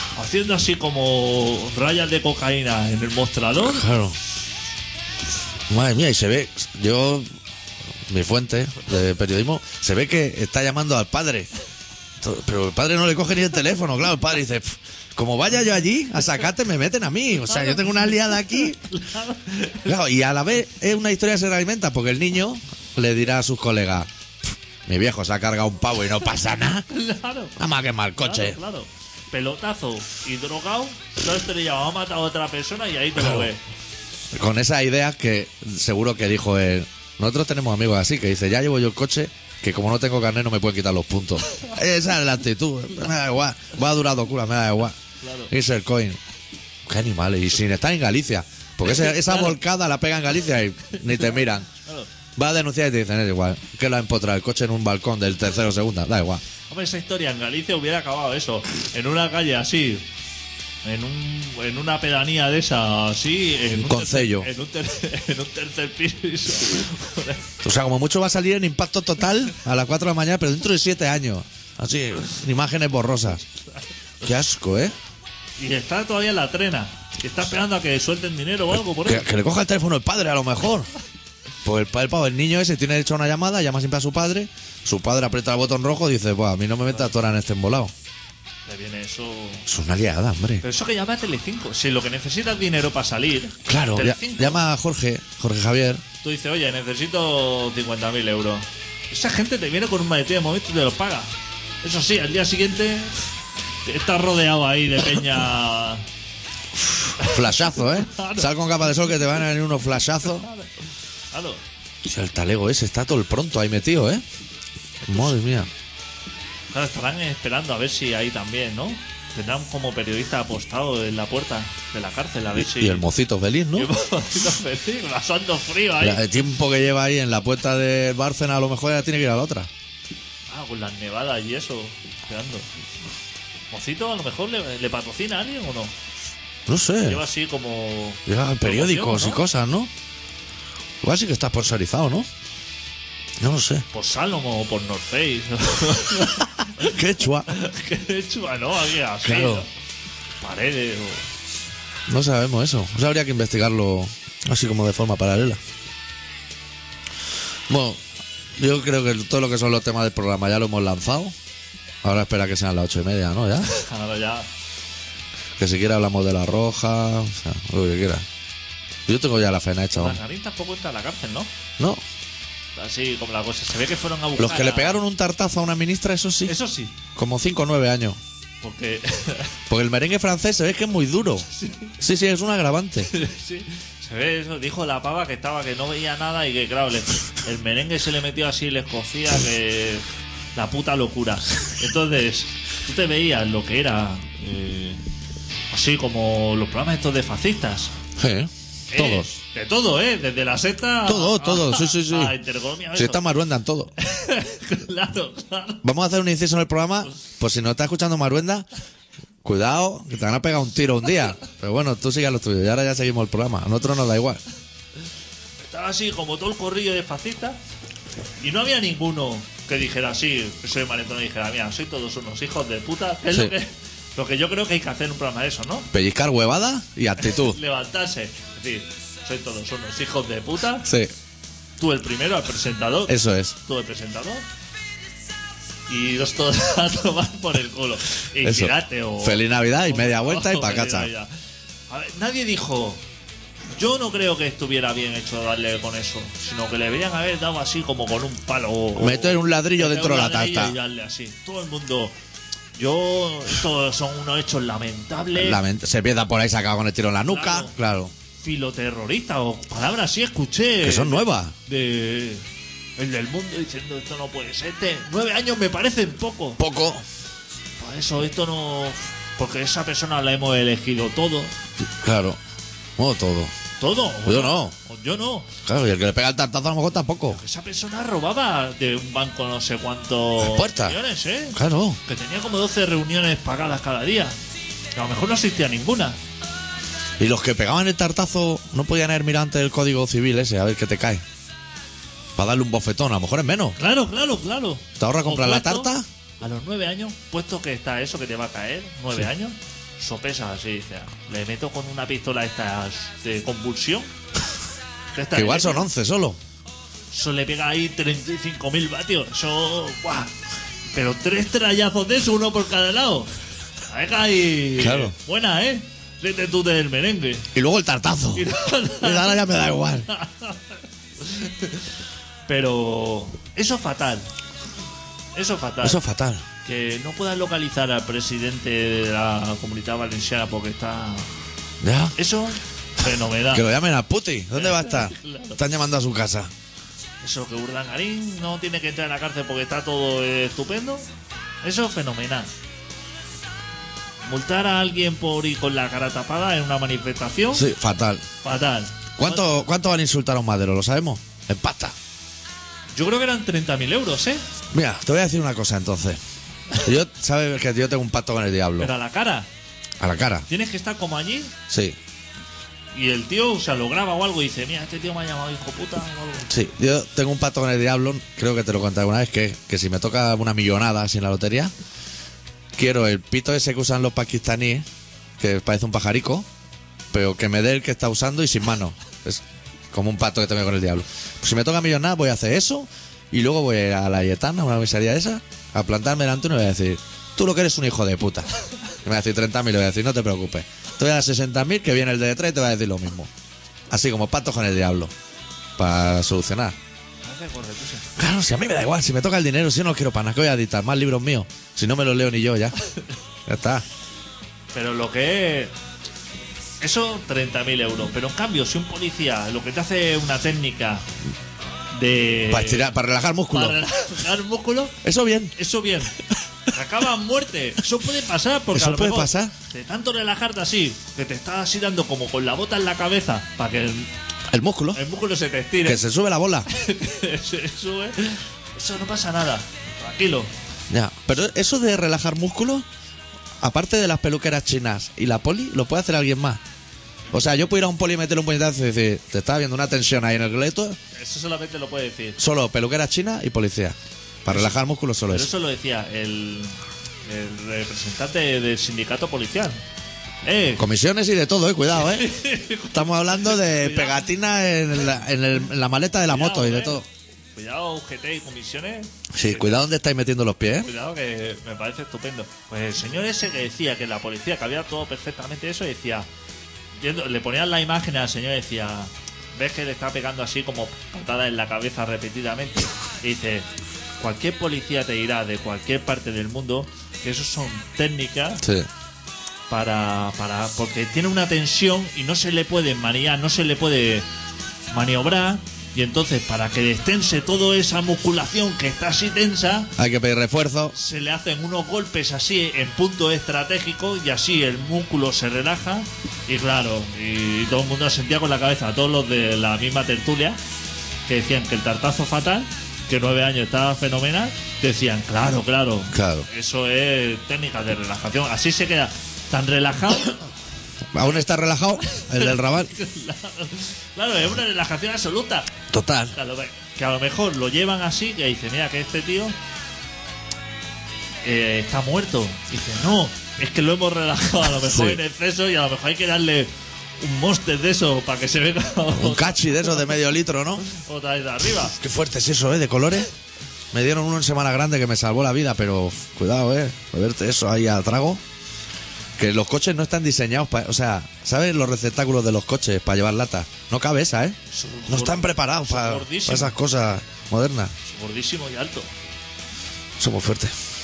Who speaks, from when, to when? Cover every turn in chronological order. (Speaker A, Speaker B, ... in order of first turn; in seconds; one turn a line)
Speaker A: 0.1-3.8
Speaker B: 3.6-4.2
Speaker B: 5.7-7.3
Speaker B: 8.1-11.5
Speaker B: 12.2-18.8
Speaker A: 17.5-19.9
Speaker B: 19.8-24.1
Speaker B: 24.9-26.9
Speaker A: 26.9-27.6
Speaker B: 27.6-28.6
Speaker A: 28.2-33.6
Speaker B: 33.1-33.5
Speaker B: 34.3-45.0
Speaker A: 45.2-45.5
Speaker B: 45.5-46.2
Speaker B: 46.8-51.7
Speaker A: 48.8-49.6
Speaker A: 51.2-52.1
Speaker B: 52.4-56.4
Speaker A: 56.7-60.0
Speaker A: 60.8-67.5
Speaker B: 63.7-64.5
Speaker B: 67.6-73.4
Speaker B: 74.2-74.9
Speaker A: 75.6-79.3
Speaker B: 78.7-80.9
Speaker B: 81.6-87.9
Speaker A: 88.7-89.7
Speaker B: 89.7-90.6
Speaker A: 90.6-94.6
Speaker B: 93.7-96.0
Speaker A: 96.2-103.2
Speaker A: 103.8-106.0
Speaker B: 107.0-110.5
Speaker A: 107.2-108.5
Speaker A: 110.2-110.7
Speaker A: 111.3-111.6
Speaker B: 112.0-114.2
Speaker A: 115.0-115.4
Speaker B: 115.1-115.7
Speaker A: 116.7-123.1
Speaker B: 122.5-123.9
Speaker A: 123.7-126.5
Speaker B: 126.0-129.7
Speaker A: 130.5-132.7
Speaker A: 133.7-135.9
Speaker B: 136.7-137.2
Speaker A: 137.0-139.4
Speaker B: 138.2-139.9
Speaker B: 141.0-142.3
Speaker B: 143.4-143.8
Speaker A: 143.9-146.9
Speaker B: 146.8-147.5
Speaker A: 147.5-149.7
Speaker B: 149.2-149.6
Speaker A: 150.4-151.3
Speaker B: 152.1-155.6
Speaker B: 157.7-158.0
Speaker B: 158.6-161.3
Speaker B: 162.0-163.7
Speaker A: 163.6-164.5
Speaker B: 165.6-168.2
Speaker B: 169.1-170.2
Speaker A: 169.9-171.5
Speaker A: 172.8-175.0
Speaker B: 174.4-176.5
Speaker A: 176.4-176.9
Speaker B: 177.1-178.2
Speaker A: 178.6-179.5
Speaker B: 179.7-181.5
Speaker A: 181.4-182.0
Speaker B: 182.0-183.1
Speaker A: 183.0-195.0
Speaker A: 195.7-197.9
Speaker B: 198.2-199.3
Speaker A: 198.9-203.2
Speaker B: 201.1-202.3
Speaker B: 202.9-203.9
Speaker A: 204.0-205.8
Speaker B: 205.8-208.7
Speaker B: 209.4-214.4
Speaker A: 215.6-217.6
Speaker A: 218.4-225.9
Speaker B: 225.9-227.6
Speaker A: 227.2-230.9
Speaker B: 230.8-231.1
Speaker A: 231.8-234.4
Speaker B: 233.1-233.5
Speaker A: 235.9-241.3
Speaker B: 238.4-241.1
Speaker A: 241.9-243.0
Speaker A: 243.7-252.2
Speaker B: 248.9-250.8
Speaker A: 252.8-255.6
Speaker B: 255.3-258.1
Speaker A: 257.2-257.7
Speaker A: 258.4-262.4
Speaker B: 260.8-261.5
Speaker A: 263.0-266.6
Speaker B: 266.6-267.0
Speaker A: 267.8-271.5
Speaker B: 272.0-272.4
Speaker B: 273.0-273.5
Speaker A: 273.8-275.5
Speaker B: 274.2-274.7
Speaker B: 275.6-277.4
Speaker A: 277.3-284.4
Speaker B: 280.4-281.0
Speaker B: 281.5-282.0
Speaker A: 284.9-286.2
Speaker B: 287.2-291.2
Speaker B: 292.4-293.8
Speaker A: 293.8-304.1
Speaker B: 295.0-296.1
Speaker A: 305.1-305.9
Speaker B: 305.3-306.4
Speaker A: 307.1-310.3
Speaker A: 310.9-313.3
Speaker A: 313.9-317.5
Speaker B: 314.8-315.1
Speaker B: 317.5-320.1
Speaker A: 318.3-319.4
Speaker A: 320.1-321.8
Speaker A: 322.5-324.3
Speaker A: 325.3-326.0
Speaker B: 325.8-326.4
Speaker A: 326.6-331.3
Speaker B: 331.8-332.1
Speaker A: 332.1-333.7
Speaker B: 333.5-336.5
Speaker A: 334.5-335.6
Speaker A: 337.2-341.1
Speaker A: 341.6-342.5
Speaker A: 344.2-347.7
Speaker B: 347.5-348.2
Speaker A: 348.4-349.6
Speaker B: 349.2-351.9
Speaker A: 352.9-354.4
Speaker B: 354.7-356.2
Speaker B: 356.8-358.9
Speaker A: 358.8-359.5
Speaker B: 360.0-360.5
Speaker A: 360.5-361.5
Speaker B: 361.7-362.0
Speaker A: 362.9-366.5
Speaker B: 366.5-371.7
Speaker B: 372.8-374.9
Speaker B: 375.4-376.5
Speaker B: 377.1-388.5
Speaker B: 389.0-393.3
Speaker B: 393.9-395.1
Speaker B: 395.8-396.8
Speaker A: 397.2-398.1
Speaker B: 398.2-402.7
Speaker B: 403.4-403.8
Speaker A: 404.7-405.7
Speaker A: 406.8-411.1
Speaker A: 411.9-412.9
Speaker B: 412.5-413.8
Speaker A: 413.5-415.0
Speaker B: 415.0-415.5
Speaker A: 415.5-416.2
Speaker A: 416.7-424.1
Speaker B: 418.7-419.5
Speaker B: 424.5-425.0
Speaker A: 424.9-426.0
Speaker B: 425.8-426.7
Speaker A: 426.7-430.5
Speaker B: 430.9-432.9
Speaker B: 433.6-436.6
Speaker B: 437.3-441.0
Speaker A: 441.1-442.4
Speaker B: 442.4-445.5
Speaker A: 444.5-444.8
Speaker A: 445.3-449.8
Speaker A: 450.4-450.8
Speaker B: 450.8-452.3
Speaker A: 451.9-454.2
Speaker B: 452.9-457.1
Speaker A: 456.3-457.0
Speaker A: 457.5-459.8
Speaker B: 459.3-460.9
Speaker A: 460.8-466.3
Speaker A: 467.0-473.7
Speaker A: 474.2-478.6
Speaker B: 478.6-478.9
Speaker A: 479.7-484.3
Speaker A: 484.9-489.9
Speaker B: 490.0-490.9
Speaker A: 490.9-500.6
Speaker A: 501.3-510.4
Speaker B: 506.1-506.5
Speaker B: 511.1-512.9
Speaker A: 512.0-515.7
Speaker B: 515.9-516.4
Speaker A: 516.3-519.5
Speaker A: 521.4-530.0
Speaker B: 524.8-525.2
Speaker B: 529.1-530.9
Speaker A: 530.9-532.0
Speaker B: 531.9-533.3
Speaker B: 533.9-538.4
Speaker B: 539.4-547.9
Speaker A: 544.7-546.7
Speaker A: 548.0-549.1
Speaker B: 550.2-550.7